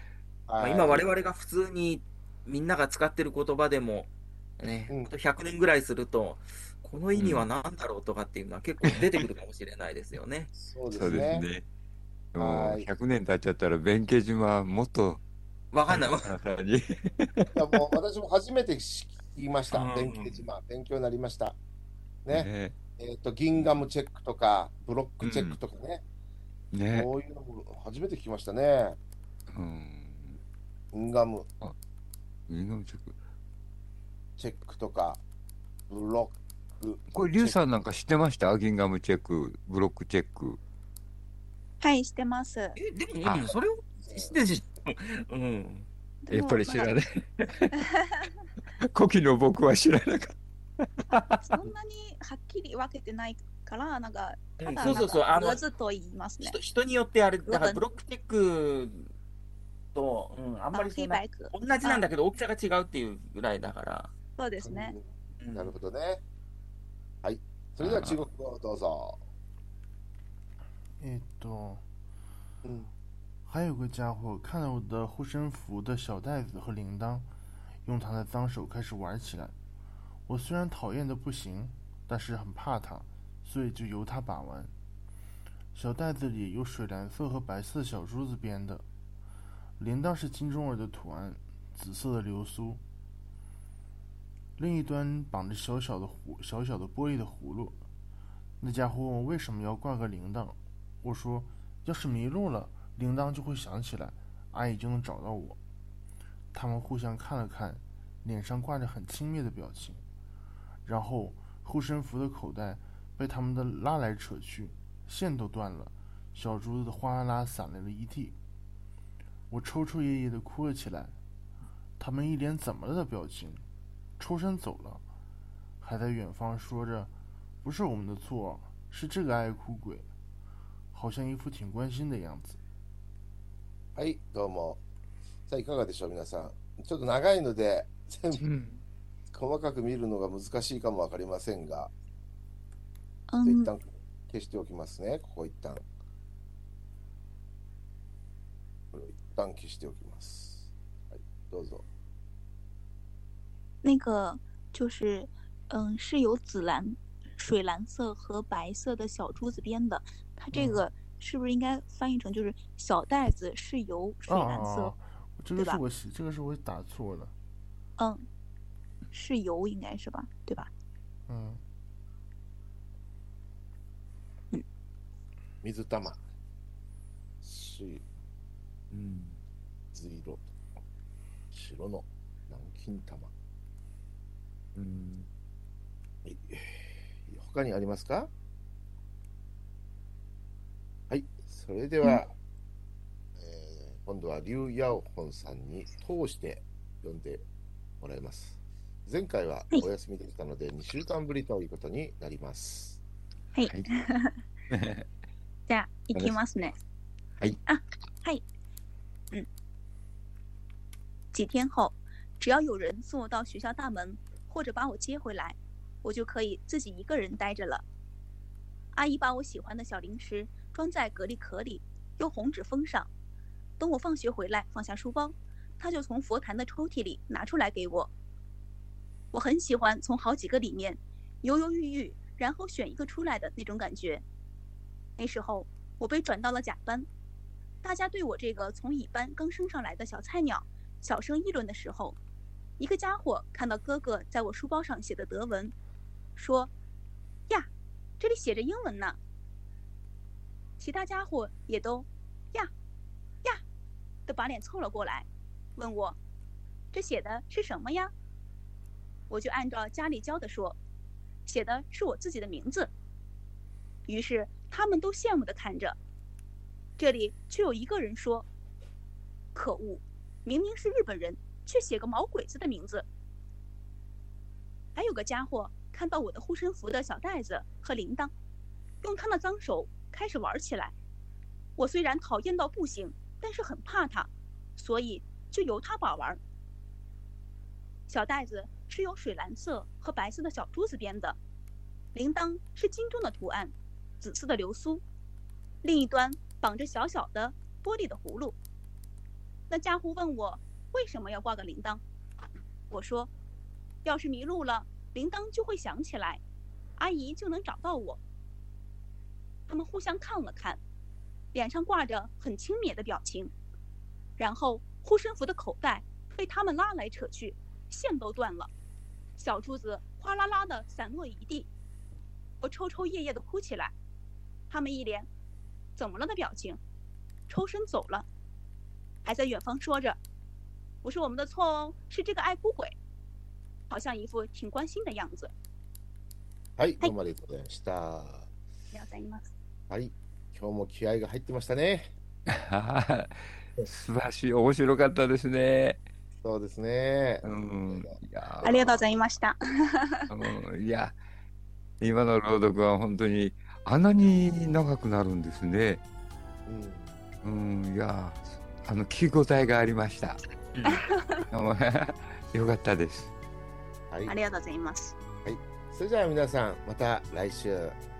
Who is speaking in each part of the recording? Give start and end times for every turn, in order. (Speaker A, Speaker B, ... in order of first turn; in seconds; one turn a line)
Speaker A: 0.5-1.0
Speaker B: 0.6-10.5
Speaker C: 7.1-7.5
Speaker A: 10.5-11.4
Speaker C: 10.9-11.6
Speaker C: 12.3-15.2
Speaker A: 12.4-12.8
Speaker B: 15.7-16.3
Speaker C: 15.9-17.6
Speaker A: 17.5-21.6
Speaker B: 19.7-20.4
Speaker A: 22.2-26.0
Speaker C: 22.3-22.7
Speaker C: 23.6-23.8
Speaker C: 25.2-25.6
Speaker C: 26.7-27.1
Speaker A: 26.9-29.0
Speaker C: 29.5-30.4
Speaker A: 30.9-31.5
Speaker C: 32.5-33.1
Speaker A: 34.4-35.2
Speaker A: 35.9-37.6
Speaker C: 37.1-40.6
Speaker D: 41.8-42.8
Speaker B: 42.8-45.9
Speaker C: 43.2-43.5
Speaker D: 46.2-46.9
Speaker C: 46.3-47.8
Speaker D: 47.7-48.2
Speaker C: 48.8-51.4
Speaker D: 51.4-56.6
Speaker B: 54.6-55.6
Speaker B: 56.4-59.1
Speaker D: 57.5-57.8
Speaker B: 59.9-64.1
Speaker D: 60.7-62.0
Speaker D: 64.4-65.0
Speaker A: 64.6-66.2
Speaker B: 65.4-65.7
Speaker A: 67.2-69.2
Speaker B: 67.8-68.2
Speaker E: 71.0-71.8
Speaker A: 72.6-72.9
Speaker E: 73.5-77.3
Speaker E: 77.8-79.5
Speaker E: 80.3-84.7
Speaker E: 85.7-88.8
Speaker E: 89.8-92.8
Speaker E: 94.6-97.8
Speaker E: 98.6-105.6
Speaker E: 106.5-110.0
Speaker E: 110.8-118.4
Speaker E: 119.5-121.2
Speaker E: 122.0-123.6
Speaker E: 124.2-125.0
Speaker E: 125.8-130.1
Speaker E: 130.9-132.6
Speaker A: 133.9-134.8
Speaker A: 135.5-138.4
Speaker C: 138.3-138.8
Speaker A: 139.3-141.9
Speaker D: 143.3-143.7
Speaker A: 143.4-145.8
Speaker A: 148.9-151.8
Speaker D: 153.8-164.9
Speaker E: 160.5-160.8
Speaker E: 164.3-167.3
Speaker D: 165.6-165.8
Speaker D: 168.0-168.2
Speaker D: 169.1-170.7
Speaker E: 171.3-171.6
Speaker A: 175.6-176.2
Speaker A: 177.4-178.0
Speaker C: 178.9-179.4
Speaker A: 179.9-180.4
Speaker A: 181.5-183.3
Speaker C: 184.7-185.3
Speaker A: 186.2-188.3
Speaker A: 191.1-192.3
Speaker A: 193.3-197.4
Speaker A: 198.0-203.0
Speaker D: 203.5-204.4
Speaker C: 204.7-205.1
Speaker D: 205.7-206.7
Speaker D: 207.7-208.4
Speaker D: 211.3-217.8
Speaker D: 218.9-223.1
Speaker D: 223.8-228.1
Speaker D: 229.3-234.2
Speaker D: 235.2-237.1
Speaker D: 237.8-242.2
Speaker D: 242.8-245.7
Speaker D: 246.4-246.7
Speaker D: 248.2-249.2
Speaker D: 250.8-252.7
Speaker D: 254.3-256.2
Speaker D: 256.9-258.1
Speaker D: 259.3-260.8
Speaker D: 261.5-262.9
Speaker D: 264.1-266.0
Speaker D: 267.0-268.5
Speaker D: 269.5-273.1
Speaker D: 274.9-278.3
Speaker D: 279.0-280.9
Speaker D: 281.8-286.4
Speaker D: 288.1-291.4
Speaker D: 292.1-295.0
Speaker D: 295.8-298.6
Speaker D: 299.7-302.0
Speaker D: 302.9-303.3
Speaker D: 304.0-306.4
Speaker D: 307.0-308.2
Speaker D: 309.7-310.8
Speaker D: 311.5-313.5
Speaker D: 314.4-318.7
Speaker D: 319.4-321.7
Speaker D: 322.6-323.9
Speaker D: 324.7-325.3
Speaker D: 325.9-326.8
Speaker D: 327.5-328.3
Speaker D: 329.2-330.2
Speaker D: 331.0-332.9
Speaker D: 333.9-335.5
Speaker A: 336.8-338.5
Speaker D: 338.9-339.5
Speaker A: 339.9-342.1
Speaker C: 342.5-346.0
Speaker A: 346.4-349.0
Speaker C: 347.4-349.1
Speaker D: 348.6-350.3
Speaker C: 350.3-351.2
Speaker C: 352.0-356.0
Speaker A: 356.7-357.1
Speaker C: 357.4-360.4
Speaker B: 360.7-361.0
Speaker D: 360.9-361.5
Speaker C: 361.5-363.3
Speaker A: 364.1-364.4
Speaker D: 364.2-365.1
Speaker A: 365.4-368.0